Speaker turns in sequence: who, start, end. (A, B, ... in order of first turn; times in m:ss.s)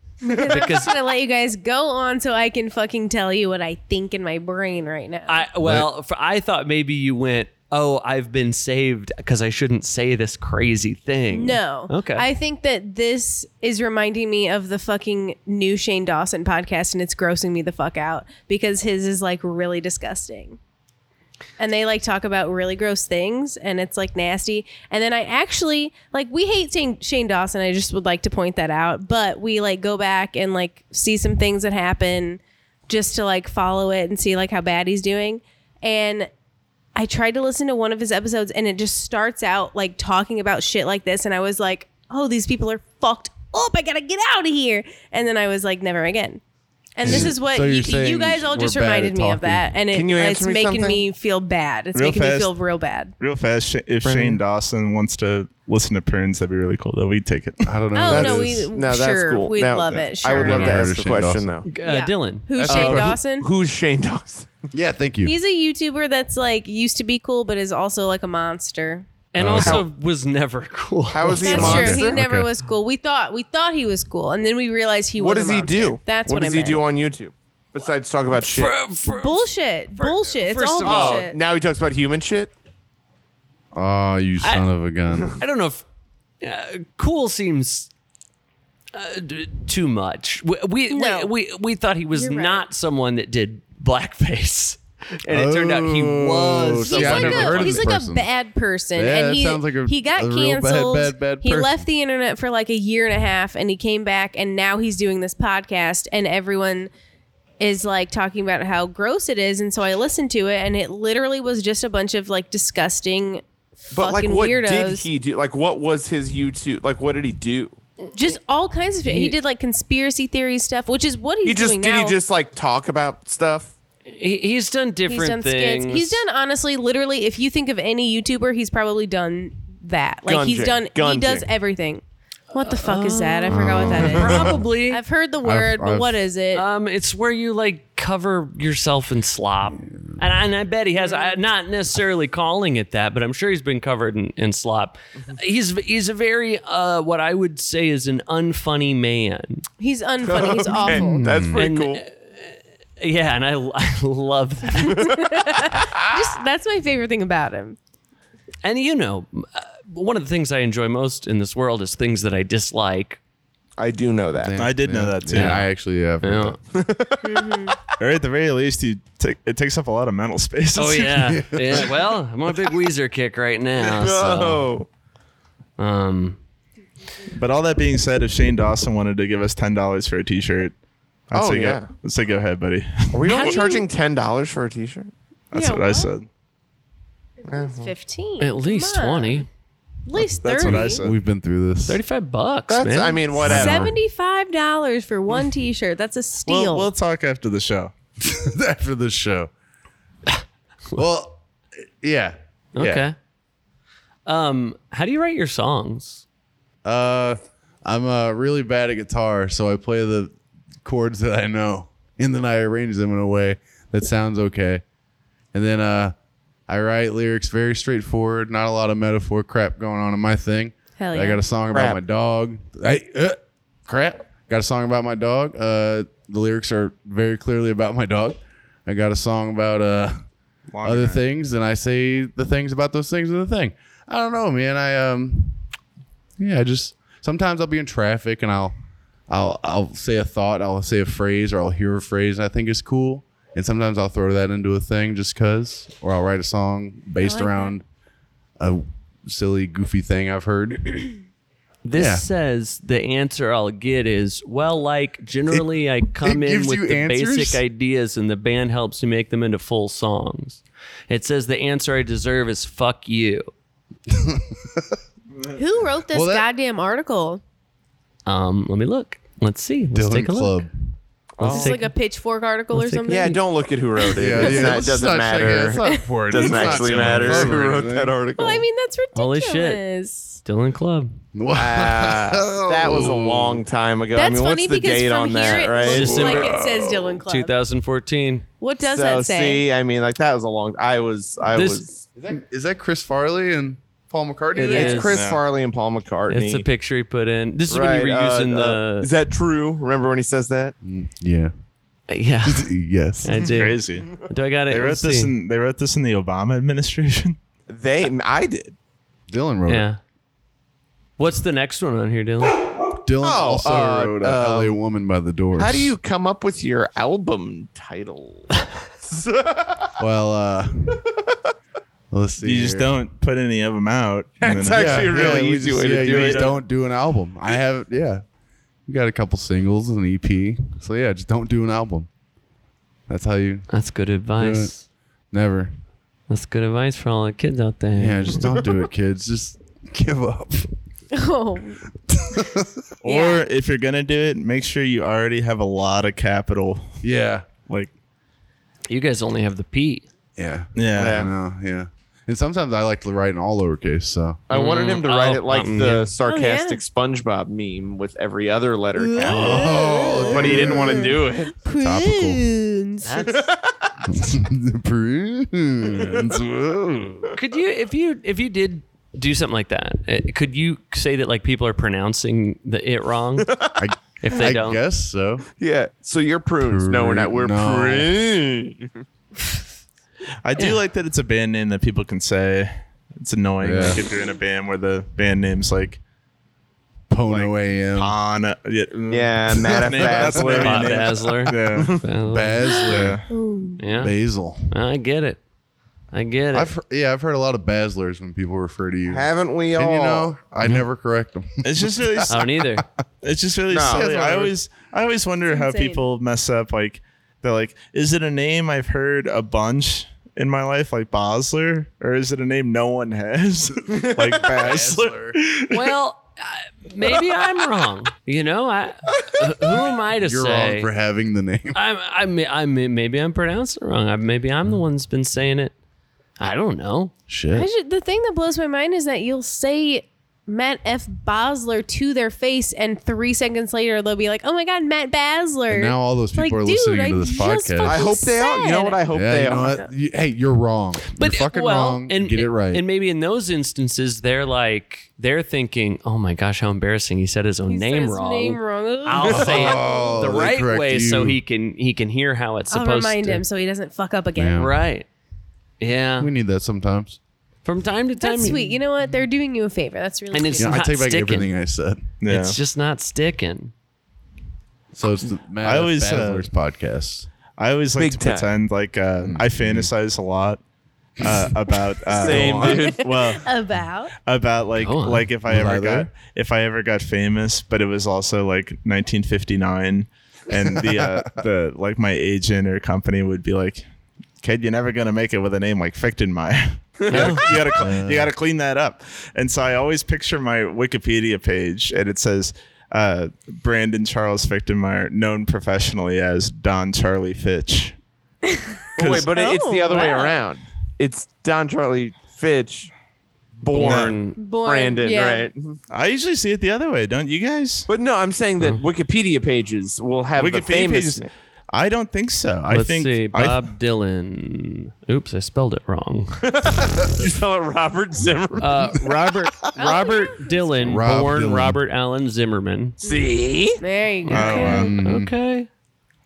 0:00.2-0:05.4 A
0:00.3-0:00.9 B
0:05.3-0:12.3 B
0:05.6-0:05.9 C
0:11.3-0:20.6 A
0:21.6-0:36.3 A
0:37.0-0:46.4 A
0:47.0-0:53.1 A
0:47.0-0:49.7 C
0:49.9-0:51.0 D
0:51.9-0:52.5 E
0:53.2-0:57.7 E
0:54.1-0:54.4 B
0:57.6-0:58.7 C
0:57.9-1:01.0 A
0:58.1-1:01.7 D
1:00.3-1:01.6 C
1:01.7-1:03.0 B
1:01.8-1:03.5 A
1:02.5-1:03.2 C
1:03.4-1:04.5 D
1:04.7-1:05.3 C
1:05.2-1:09.1 A
1:09.3-1:11.9 B
1:09.4-1:09.8 C
1:09.6-1:09.8 D
1:11.1-1:12.2 D
1:11.4-1:16.8 A
1:11.4-1:12.5 C
1:15.2-1:18.7 D
1:18.3-1:21.3 B
1:19.0-1:21.4 A
1:20.8-1:22.5 D
1:23.7-1:25.4 C
1:24.4-1:24.7 B
1:25.3-1:25.8 B
1:26.4-1:27.9 B
1:28.9-1:37.9 B
1:30.9-1:31.3 A
1:32.1-1:32.6 A
1:35.3-1:38.3 C
1:36.8-1:46.9 A
1:38.9-1:41.8 C
1:47.6-1:55.1 A
1:53.9-1:57.8 D
1:58.1-2:02.2 A
1:59.0-1:59.4 B
2:01.4-2:03.7 D
2:04.1-2:06.2 B
2:05.1-2:16.6 A
2:10.2-2:11.5 D
2:12.5-2:15.0 B
2:13.5-2:14.6 C
2:15.4-2:16.2 C
2:16.5-2:29.6 B
2:19.8-2:20.1 C
2:21.0-2:21.4 A
2:29.8-2:31.3 A
2:30.2-2:32.0 D
2:30.9-2:31.6 C
2:31.6-2:35.2 B
2:34.8-2:37.8 A
2:38.6-2:43.2 B
2:43.8-2:44.6 D
2:44.3-2:46.6 C
2:44.6-2:45.6 E
2:45.3-2:45.7 B
2:46.2-2:46.6 B
2:46.7-2:47.7 D
2:47.2-2:47.8 A
2:48.0-2:51.4 E
2:50.7-2:54.7 B
2:51.2-2:51.9 C
2:53.8-2:54.9 D
2:55.8-2:56.4 B
2:57.3-3:00.7 E
3:01.3-3:03.5 E
3:01.3-3:01.9 D
3:03.1-3:05.1 D
3:03.3-3:03.7 B
3:03.3-3:03.8 A
3:05.5-3:06.3 E
3:05.5-3:06.1 A
3:07.5-3:07.9 D
3:07.5-3:09.4 A
3:08.4-3:09.5 B
3:10.0-3:11.0 A
3:10.4-3:11.1 E
3:10.6-3:12.0 C
3:11.8-3:13.2 B
3:12.7-3:13.9 D
3:13.4-3:16.9 A
3:13.4-3:13.9 C
3:16.4-3:17.9 E
3:18.2-3:19.5 C
3:20.9-3:21.4 C
3:22.0-3:23.0 C
3:22.7-3:23.1 B
3:24.2-3:26.2 B
3:26.8-3:30.3 C
3:30.8-3:34.8 C
3:35.5-3:36.1 C
3:36.7-3:50.2 C
3:41.0-3:41.4 A
3:41.7-3:42.0 D
3:50.7-3:51.2 E
3:50.8-3:55.6 C
3:56.4-3:58.7 C
3:59.3-4:07.8 C
4:07.2-4:07.7 A
4:08.6-4:11.1 C
4:11.8-4:23.5 B
4:11.9-4:12.2 C
4:15.5-4:17.6 C
4:24.1-4:25.0 C
4:25.6-4:27.4 A
4:26.1-4:26.5 C
4:28.2-4:30.6 B
4:29.9-4:30.7 C
4:31.4-4:31.8 D
4:31.4-4:31.9 B
4:31.4-4:33.4 A
4:32.7-4:33.4 B
4:33.1-4:38.6 D
4:34.0-4:34.9 A
4:34.2-4:38.1 C
4:35.8-4:36.1 A
4:36.7-4:37.5 E
4:38.4-4:40.4 A
4:39.1-4:39.8 B
4:40.4-4:41.2 B
4:41.3-4:43.6 C
4:41.5-4:46.5 D
4:44.1-4:47.5 A
4:45.8-4:46.5 B
4:46.1-4:47.2 C
4:47.2-4:48.4 B
4:48.6-4:49.7 A
4:48.8-4:52.1 D
4:51.5-4:51.8 B
4:52.2-4:55.1 C
4:54.6-4:55.1 A
4:54.6-4:55.2 B
4:54.6-4:56.6 D
4:55.1-4:55.4 E
4:56.3-4:59.1 B
4:57.7-5:00.7 D
5:00.8-5:01.5 C
5:02.1-5:02.7 B
5:02.4-5:03.4 C
5:03.2-5:05.3 B
5:03.4-5:04.2 E
5:04.7-5:07.4 E
5:07.7-5:08.7 D
5:09.3-5:09.9 C
5:09.7-5:10.0 B
5:11.2-5:12.6 B
5:12.9-5:15.9 C
5:13.2-5:14.8 D
5:15.6-5:20.0 D
5:20.0-5:21.0 C
5:22.1-5:22.9 C
5:22.4-5:25.4 E
5:24.4-5:26.5 D
5:24.6-5:28.2 C
5:26.0-5:26.5 E
5:28.9-5:32.1 C
5:33.1-5:33.6 C
5:33.7-5:34.8 B
5:34.4-5:34.7 C
5:35.3-5:35.7 C
5:36.3-5:38.6 B
5:38.0-5:40.7 C
5:41.1-5:41.8 A
5:42.1-5:42.8 C
5:43.0-5:47.0 E
5:43.0-5:43.5 A
5:47.0-5:47.5 C
5:48.9-5:50.0 B
5:50.4-5:54.4 C
5:50.8-5:51.3 E
5:51.0-5:51.3 D
5:54.5-6:01.5 D
5:54.5-5:56.1 B
5:56.2-5:56.8 A
5:58.9-6:03.3 A
5:59.2-5:59.5 E
5:59.2-6:01.1 C
6:00.3-6:00.7 E
6:01.8-6:02.4 C
6:03.0-6:03.4 B
6:03.2-6:03.9 D
6:04.1-6:07.3 C
6:06.0-6:06.4 D
6:07.3-6:13.5 B
6:13.4-6:13.8 D
6:13.8-6:15.4 C
6:14.2-6:14.8 B
6:15.6-6:19.0 D
6:16.6-6:18.1 C
6:20.4-6:26.0 E
6:23.6-6:24.0 C
6:27.1-6:28.1 C
6:27.3-6:32.0 E
6:29.1-6:31.1 D
6:29.9-6:30.7 C
6:30.4-6:32.8 B
6:31.7-6:32.0 D
6:32.3-6:33.2 C
6:32.7-6:33.8 A
6:32.8-6:33.2 E
6:33.8-6:34.1 B
6:34.0-6:34.7 C
6:34.7-6:35.4 B
6:36.1-6:36.7 B
6:36.5-6:42.8 C
6:39.1-6:40.3 D
6:41.6-6:42.4 E
6:42.3-6:42.8 B
6:43.2-6:55.9 E
6:43.7-6:44.1 D
6:43.8-6:44.5 C
6:45.5-6:46.0 A
6:53.9-6:54.6 D
6:54.3-6:55.4 C
6:55.7-7:00.9 B
6:59.2-6:59.9 D
7:00.2-7:01.8 C
7:01.7-7:05.7 B
7:06.4-7:07.1 B
7:07.3-7:07.7 C
7:07.5-7:19.0 A
7:15.7-7:18.1 C
7:17.8-7:19.8 D
7:19.1-7:22.8 C
7:21.1-7:33.4 B
7:27.7-7:30.3 A
7:29.2-7:31.4 C
7:32.7-7:34.7 A
7:34.4-7:34.7 C
7:34.6-7:35.1 B
7:35.8-7:36.3 B
7:36.2-7:37.2 C
7:37.6-7:38.8 B
7:38.2-7:40.8 A
7:40.3-7:41.5 B
7:40.6-7:42.1 C
7:42.2-7:42.6 E
7:42.3-7:43.7 B
7:44.9-7:47.3 C
7:45.6-7:46.5 E
7:47.6-7:50.6 E
7:48.0-7:48.5 D
7:49.2-7:49.9 C
7:51.2-7:53.5 E
7:51.2-7:51.5 C
7:52.1-7:53.2 D
7:52.1-7:52.8 C
7:52.7-7:54.1 A
7:54.2-8:03.8 E
7:54.8-7:55.3 B
7:55.5-7:56.1 C
8:00.6-8:01.4 C
8:04.4-8:18.0 E
8:07.0-8:07.6 D
8:07.1-8:07.5 B
8:07.7-8:08.3 C
8:18.5-8:20.4 A
8:19.0-8:22.9 D
8:19.0-8:19.3 E
8:23.6-8:25.8 D
8:23.7-8:24.4 B
8:23.8-8:24.2 E
8:24.4-8:25.5 A
8:25.9-8:27.9 E
8:27.9-8:31.3 D
8:30.4-8:33.6 E
8:32.7-8:36.5 B
8:36.4-8:39.1 D
8:38.6-8:43.1 B
8:39.8-8:40.6 A
8:40.8-8:41.8 C
8:43.0-8:43.8 D
8:43.0-8:45.0 A
8:44.2-8:45.7 B
8:44.3-8:44.9 E
8:44.3-8:45.3 C